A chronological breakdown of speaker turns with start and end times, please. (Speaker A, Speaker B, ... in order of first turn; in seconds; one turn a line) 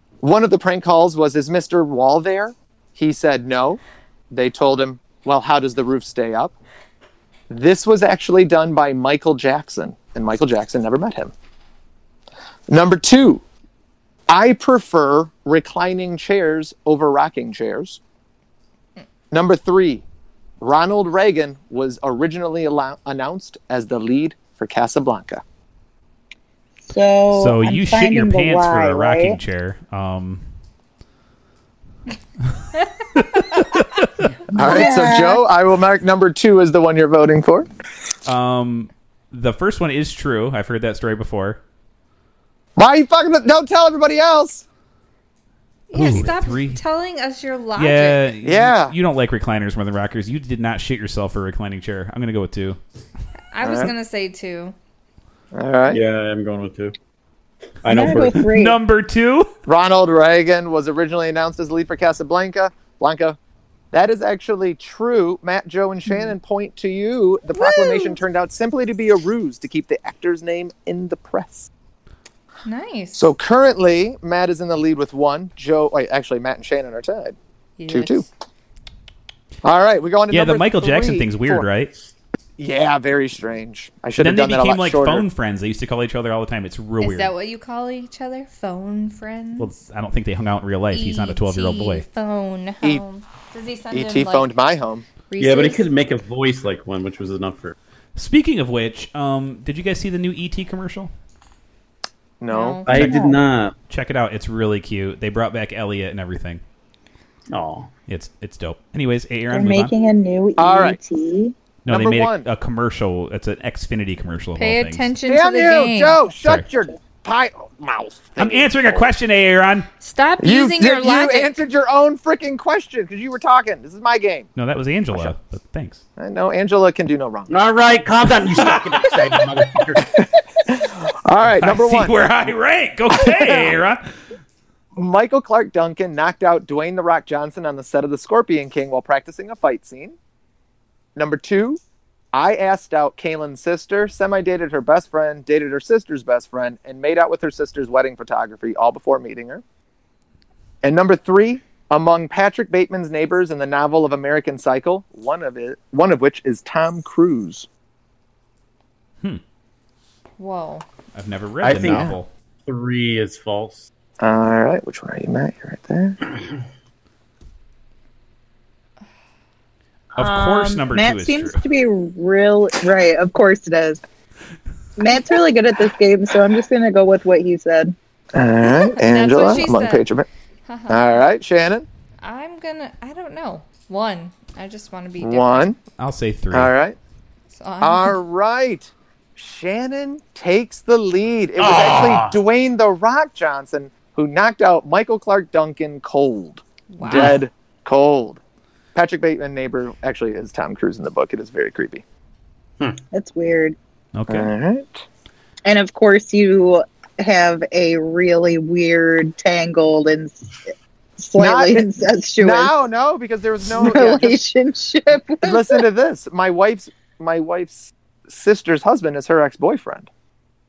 Speaker A: 0.2-3.8
Speaker A: 4.3-6.5
Speaker A: 7.5-11.3
Speaker A: 12.7-13.4
Speaker A: 14.3-18.0
Speaker A: 19.3-20.1
Speaker A: 20.6-25.4
Speaker B: 26.9-29.4
Speaker C: 27.3-30.4
Speaker C: 33.2-34.1
Speaker B: 34.5-35.4
Speaker A: 34.5-37.7
Speaker C: 38.2-41.6
Speaker A: 42.8-44.6
Speaker D: 45.9-48.3
Speaker C: 45.9-46.8
Speaker C: 47.8-52.8
Speaker A: 48.4-49.0
Speaker D: 53.5-54.8
Speaker A: 53.6-53.9
Speaker A: 55.5-56.0
Speaker E: 55.9-57.0
Speaker E: 57.8-58.5
Speaker B: 57.9-58.8
Speaker C: 58.4-59.5
Speaker A: 59.7-63.4
Speaker A: 63.9-71.7
Speaker D: 67.5-68.2
Speaker D: 72.7-73.2
Speaker A: 73.2-77.4
Speaker D: 77.8-78.2
Speaker A: 77.9-78.3
Speaker A: 79.6-81.7
Speaker C: 80.3-81.9
Speaker A: 82.6-85.3
Speaker C: 84.2-87.3
Speaker D: 87.0-89.7
Speaker C: 89.6-92.1
Speaker D: 90.9-94.5
Speaker A: 93.9-95.1
Speaker D: 95.3-95.9
Speaker E: 95.4-97.8
Speaker C: 98.2-101.1
Speaker A: 102.4-102.8
Speaker D: 102.5-103.1
Speaker E: 102.9-103.7
Speaker C: 102.9-106.6
Speaker B: 103.0-103.4
Speaker E: 107.5-107.9
Speaker C: 108.1-109.9
Speaker B: 109.5-111.5
Speaker A: 110.6-111.0
Speaker C: 111.9-115.0
Speaker A: 111.9-112.5
Speaker D: 114.6-116.3
Speaker A: 115.3-119.1
Speaker C: 118.4-119.9
Speaker D: 120.0-121.5
Speaker A: 120.4-124.5
Speaker C: 124.6-126.0
Speaker A: 126.2-127.5
Speaker E: 127.5-130.2
Speaker A: 128.6-129.3
Speaker A: 130.1-132.5
Speaker C: 131.5-134.1
Speaker A: 133.1-133.8
Speaker A: 134.9-140.2
Speaker A: 141.2-141.8
Speaker A: 142.3-149.6
Speaker A: 150.8-157.7
Speaker D: 160.4-160.9
Speaker C: 161.1-162.3
Speaker E: 161.6-162.1
Speaker A: 161.7-162.2
Speaker E: 162.7-163.9
Speaker A: 164.2-166.2
Speaker B: 170.2-174.0
Speaker C: 170.2-171.6
Speaker B: 175.0-177.9
Speaker A: 178.3-180.3
Speaker D: 178.9-180.1
Speaker D: 180.7-181.2
Speaker A: 180.9-181.9
Speaker D: 182.2-185.7
Speaker A: 185.2-185.8
Speaker C: 186.0-186.7
Speaker A: 186.5-187.0
Speaker D: 187.5-188.2
Speaker A: 187.8-198.4
Speaker E: 191.6-192.4
Speaker D: 196.9-197.4
Speaker E: 197.0-197.4
Speaker A: 198.9-202.0
Speaker B: 203.1-203.8
Speaker C: 204.2-204.5
Speaker A: 204.3-205.0
Speaker B: 205.7-210.6
Speaker B: 211.2-212.7
Speaker A: 211.4-211.9
Speaker A: 212.4-214.4
Speaker B: 213.8-215.9
Speaker A: 215.4-220.1